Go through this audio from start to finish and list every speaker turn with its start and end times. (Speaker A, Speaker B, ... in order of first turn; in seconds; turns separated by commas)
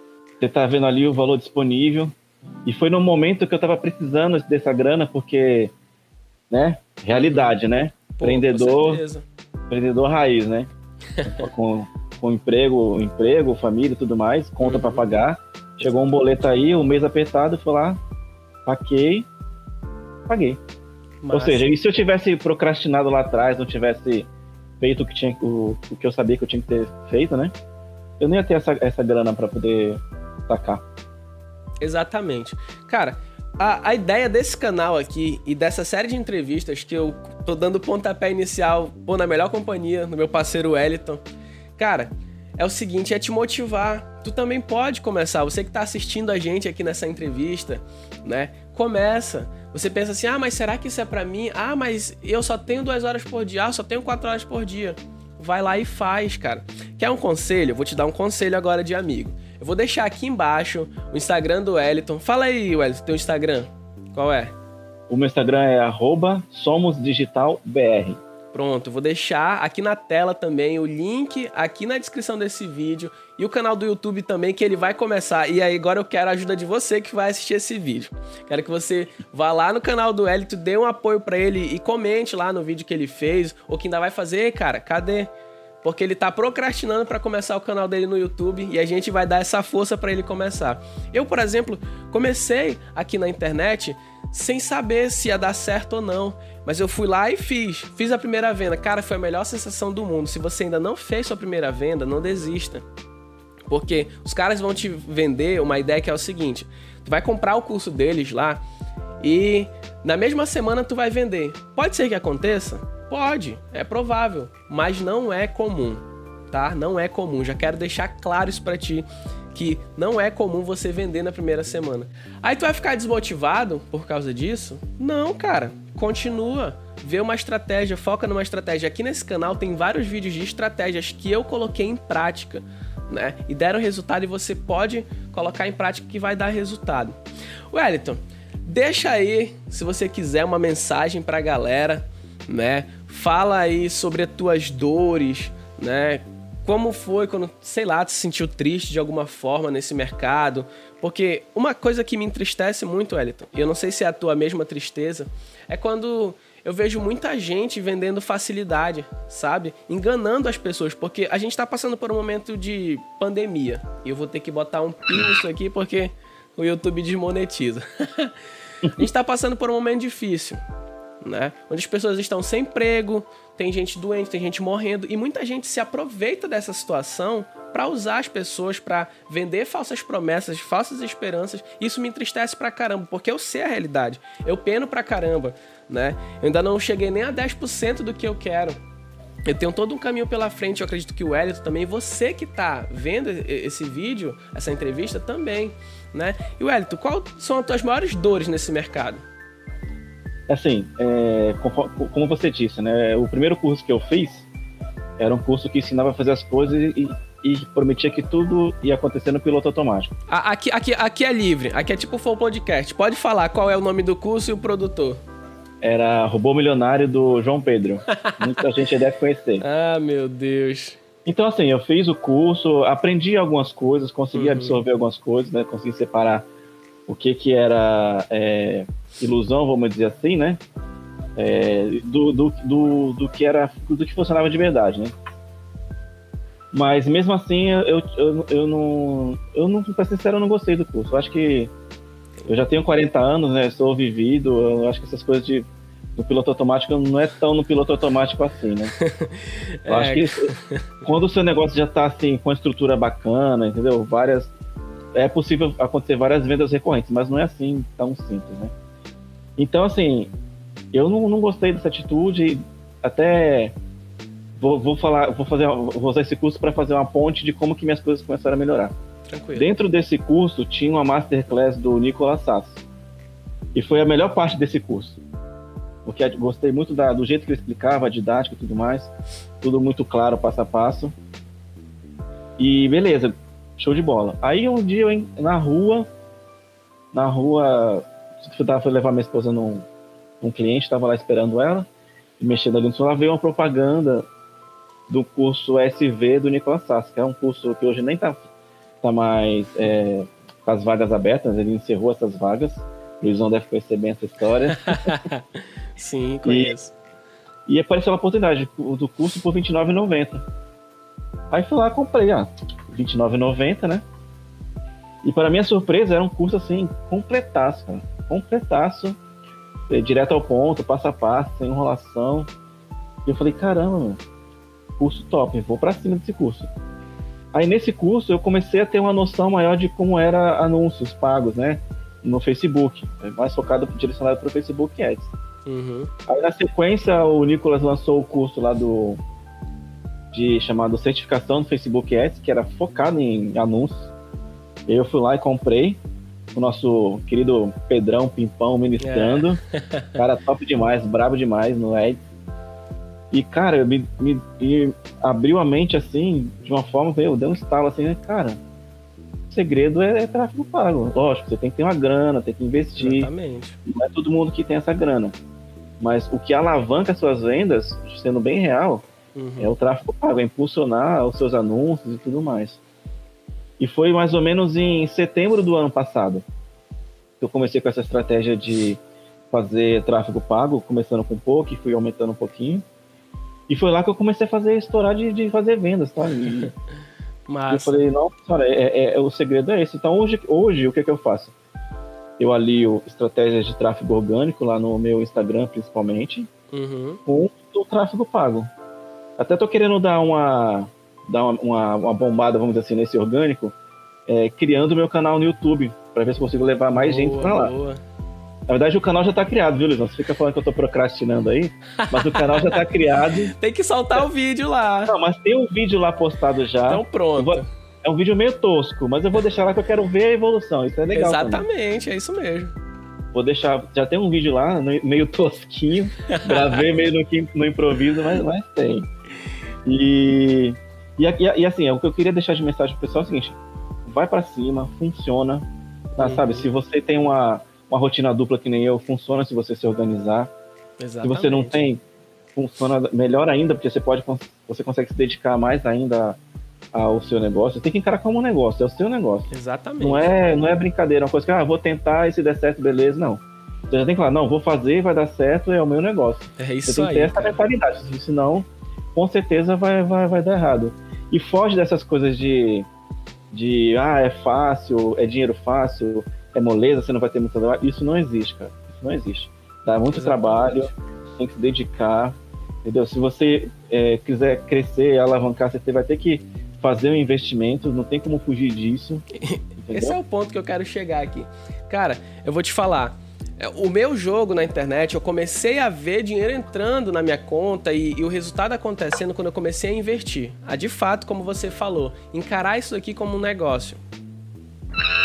Speaker A: 0.4-2.1, Speaker A: 2.6-5.7, Speaker A: 6.5-9.0, Speaker B: 7.1-7.5, Speaker B: 8.2-9.2, Speaker A: 9.7-10.7, Speaker B: 11.2-11.4, Speaker A: 11.2-18.0, Speaker B: 14.6-15.1, Speaker A: 18.6-19.3, Speaker A: 20.2-20.6, Speaker B: 21.2-21.7, Speaker A: 21.3-24.3, Speaker A: 24.8-27.5, Speaker A: 28.2-30.8, Speaker B: 31.8-41.2, Speaker B: 41.8-64.5, Speaker A: 65.1-68.2, Speaker B: 68.5-85.3, Speaker B: 85.8-102.8, Speaker B: 103.7-108.6, Speaker B: 109.2-137.1, Speaker B: 137.7-168.3, Speaker B: 169.0-170.6, Speaker B: 171.2-188.8, Speaker B: 189.4-199.2, Speaker A: 200.5-204.5, Speaker A: 205.2-210.1, Speaker B: 210.3-215.2, Speaker A: 215.8-219.6, Speaker B: 218.2-218.6, Speaker B: 219.6-221.0, Speaker A: 221.2-226.4, Speaker B: 224.3-224.8, Speaker A: 227.1-230.6, Speaker A: 231.4-235.1, Speaker A: 236.7-241.7, Speaker A: 242.5-248.9, Speaker B: 249.0-250.8, Speaker A: 249.9-250.5, Speaker A: 251.0-254.5, Speaker A: 255.1-258.7, Speaker A: 259.6-260.3, Speaker A: 260.9-263.7, Speaker A: 264.6-268.9, Speaker B: 269.3-269.7, Speaker A: 269.6-272.8, Speaker A: 273.7-275.2, Speaker A: 276.1-281.1, Speaker A: 282.6-286.1, Speaker A: 287.1-289.9, Speaker A: 290.4-291.9, Speaker A: 292.4-294.2, Speaker A: 295.1-298.4, Speaker A: 299.0-305.1, Speaker B: 304.8-306.9, Speaker A: 306.4-306.7, Speaker A: 307.7-310.4, Speaker A: 311.5-314.0, Speaker A: 315.2-319.2, Speaker A: 319.9-322.5, Speaker A: 323.2-324.2, Speaker A: 325.0-326.7, Speaker A: 327.5-335.3, Speaker B: 335.6-336.1, Speaker A: 336.3-339.2, Speaker A: 340.3-344.1, Speaker A: 344.9-346.0, Speaker A: 346.5-349.6, Speaker B: 349.0-350.1, Speaker A: 350.1-352.2, Speaker A: 353.3-358.6, Speaker A: 359.5-363.3, Speaker B: 363.0-363.8, Speaker A: 363.9-365.3, Speaker A: 366.0-369.0, Speaker B: 369.3-369.7, Speaker A: 369.6-372.8, Speaker A: 373.8-376.4, Speaker A: 377.4-382.8, Speaker A: 383.7-386.7, Speaker B: 387.5-388.1, Speaker A: 387.7-391.5, Speaker A: 392.4-396.5, Speaker B: 396.7-397.2, Speaker A: 397.2-398.7, Speaker A: 399.4-403.7, Speaker A: 404.3-407.7, Speaker B: 406.9-408.0, Speaker A: 408.7-413.5, Speaker B: 412.0-412.9, Speaker B: 413.5-415.1, Speaker A: 415.1-421.6, Speaker B: 416.8-417.6, Speaker B: 421.1-422.7, Speaker A: 423.3-429.1, Speaker B: 426.3-426.8, Speaker A: 429.9-440.5, Speaker B: 436.2-436.7, Speaker B: 441.0-441.8, Speaker A: 441.2-442.0, Speaker A: 442.6-446.4, Speaker A: 446.9-449.5, Speaker B: 449.5-450.3, Speaker A: 450.0-462.9, Speaker B: 456.6-457.6, Speaker A: 463.5-479.2, Speaker B: 470.1-470.9, Speaker B: 479.4-494.0, Speaker A: 479.8-480.2